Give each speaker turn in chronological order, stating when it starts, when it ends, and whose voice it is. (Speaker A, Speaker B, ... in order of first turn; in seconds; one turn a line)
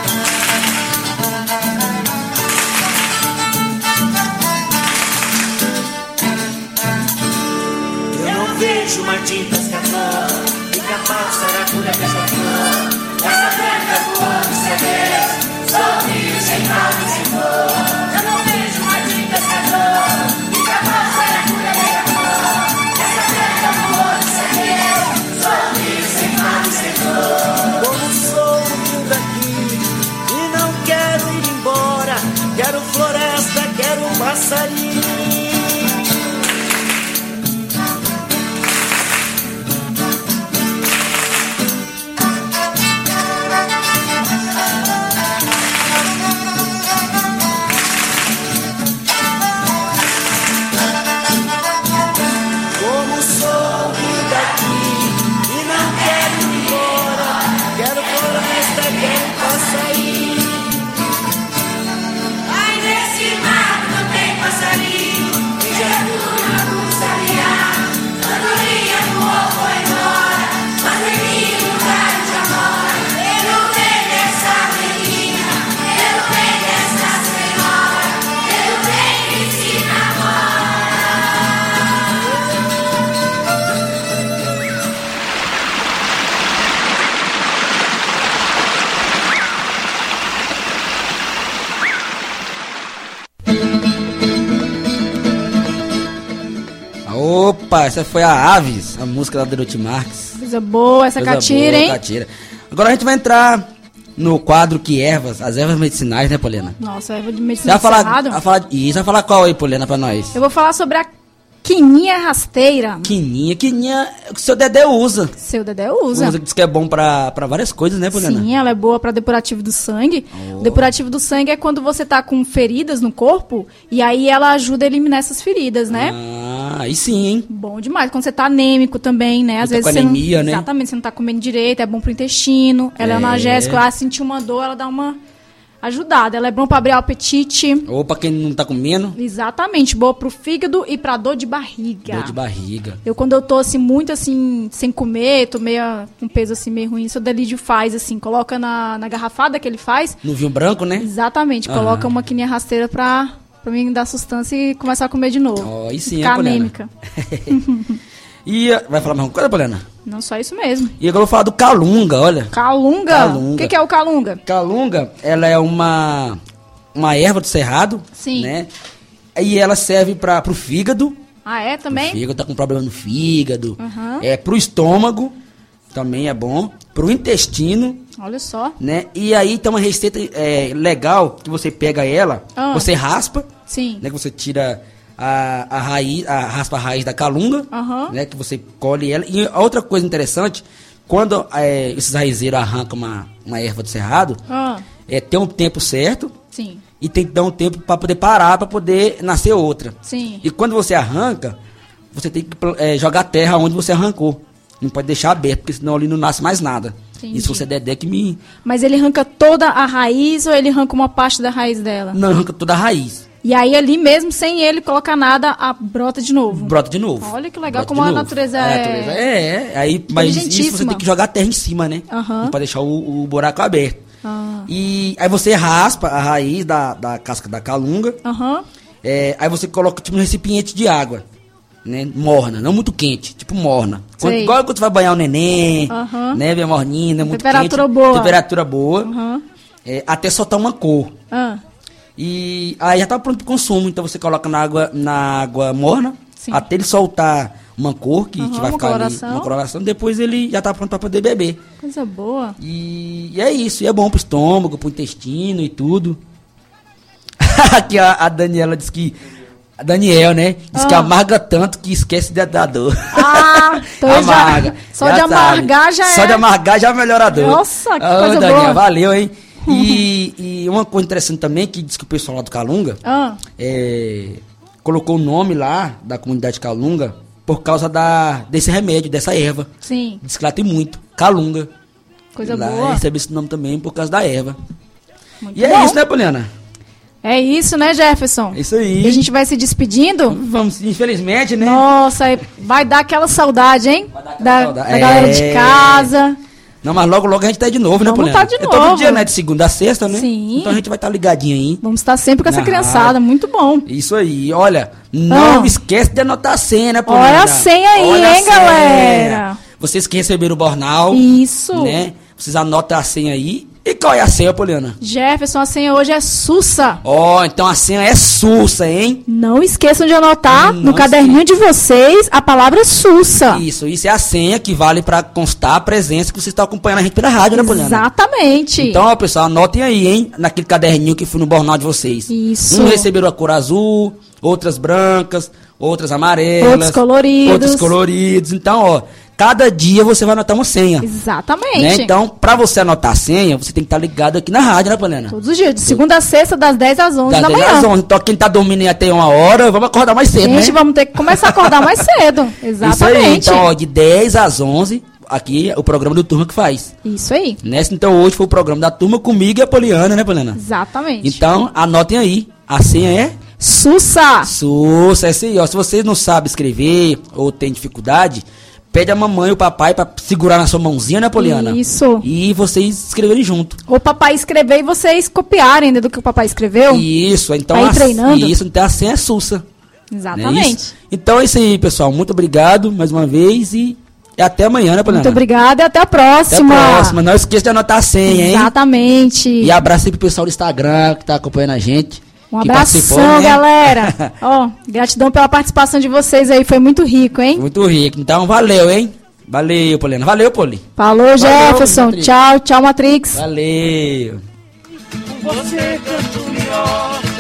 Speaker A: 8.1-18.1
Speaker A: 20.7-22.0
Speaker A: 23.0-24.7
Speaker A: 25.8-36.0
Speaker A: 52.8-60.6
Speaker A: 62.8-67.5
Speaker B: 97.1-100.3
Speaker C: 100.4-102.0
Speaker B: 101.2-103.7
Speaker B: 104.2-106.8
Speaker C: 106.8-108.4
Speaker B: 107.6-110.3
Speaker C: 110.3-111.1
Speaker C: 111.6-113.1
Speaker B: 113.0-115.3
Speaker C: 115.4-116.4
Speaker B: 116.1-118.5
Speaker C: 118.1-126.2
Speaker B: 120.3-120.9
Speaker B: 125.9-127.5
Speaker C: 127.5-135.2
Speaker B: 129.6-130.7
Speaker B: 133.0-133.8
Speaker C: 135.8-137.9
Speaker B: 137.9-139.2
Speaker C: 139.2-142.4
Speaker B: 142.1-143.0
Speaker C: 143.1-150.2
Speaker B: 150.2-151.1
Speaker C: 151.0-156.9
Speaker B: 151.7-152.1
Speaker B: 155.6-157.6
Speaker C: 157.5-158.0
Speaker B: 158.5-159.8
Speaker C: 160.1-160.9
Speaker B: 161.0-162.5
Speaker C: 162.5-164.4
Speaker B: 163.1-163.7
Speaker B: 164.5-166.4
Speaker B: 166.9-168.7
Speaker C: 168.2-168.5
Speaker B: 169.4-171.2
Speaker C: 171.5-172.2
Speaker B: 171.9-175.3
Speaker C: 173.8-174.2
Speaker B: 175.9-178.0
Speaker C: 178.2-178.8
Speaker B: 178.8-183.5
Speaker C: 182.6-182.9
Speaker C: 183.7-184.1
Speaker B: 184.0-194.4
Speaker C: 187.7-188.1
Speaker C: 194.5-194.8
Speaker B: 195.1-196.3
Speaker C: 196.5-196.8
Speaker B: 197.0-201.6
Speaker C: 200.1-200.4
Speaker B: 202.1-208.4
Speaker C: 207.2-207.7
Speaker C: 208.6-212.2
Speaker B: 212.1-213.2
Speaker C: 213.4-219.2
Speaker B: 216.5-224.0
Speaker C: 220.1-221.0
Speaker C: 222.1-222.6
Speaker C: 224.2-224.7
Speaker B: 224.7-228.2
Speaker C: 228.2-228.7
Speaker B: 229.0-231.2
Speaker B: 231.8-239.1
Speaker C: 234.2-234.6
Speaker C: 235.9-236.4
Speaker C: 237.2-238.4
Speaker C: 239.0-239.4
Speaker B: 239.9-241.1
Speaker C: 241.3-241.6
Speaker B: 242.2-251.6
Speaker C: 248.4-249.5
Speaker C: 251.8-252.6
Speaker B: 252.6-256.2
Speaker B: 257.4-259.1
Speaker B: 259.8-273.0
Speaker C: 260.7-261.1
Speaker C: 263.1-266.4
Speaker C: 267.3-268.8
Speaker C: 269.7-270.1
Speaker C: 273.1-273.4
Speaker B: 273.6-279.7
Speaker C: 279.8-280.2
Speaker B: 280.2-281.7
Speaker C: 282.4-283.0
Speaker B: 282.4-284.6
Speaker C: 285.4-286.0
Speaker B: 285.6-286.5
Speaker C: 287.2-290.4
Speaker B: 288.5-289.2
Speaker B: 290.3-291.8
Speaker C: 291.6-296.4
Speaker B: 294.1-296.1
Speaker B: 296.8-301.8
Speaker C: 298.1-299.3
Speaker C: 300.1-300.8
Speaker C: 301.8-303.9
Speaker B: 302.5-303.2
Speaker B: 303.9-315.0
Speaker C: 305.3-305.7
Speaker C: 307.1-309.6
Speaker C: 311.1-312.0
Speaker C: 315.0-317.0
Speaker B: 317.0-319.2
Speaker C: 319.3-323.6
Speaker B: 320.5-321.4
Speaker B: 323.5-328.1
Speaker C: 327.5-329.0
Speaker B: 328.8-341.1
Speaker C: 332.3-333.1
Speaker C: 336.6-337.9
Speaker C: 341.0-342.1
Speaker B: 341.8-345.4
Speaker C: 345.3-347.9
Speaker B: 347.3-351.8
Speaker C: 350.4-353.7
Speaker B: 352.8-356.9
Speaker C: 357.1-357.6
Speaker B: 357.6-360.6
Speaker C: 360.6-361.4
Speaker B: 361.2-363.4
Speaker C: 363.6-364.5
Speaker B: 364.4-373.8
Speaker C: 371.4-372.3
Speaker C: 373.9-377.1
Speaker B: 376.9-379.6
Speaker C: 377.7-378.6
Speaker C: 380.1-380.9
Speaker B: 380.3-385.4
Speaker C: 385.1-387.2
Speaker B: 386.5-388.7
Speaker C: 388.3-389.7
Speaker B: 389.6-394.3
Speaker C: 392.5-397.6
Speaker B: 397.6-400.8
Speaker C: 401.0-403.4
Speaker B: 401.4-402.3
Speaker B: 403.3-404.4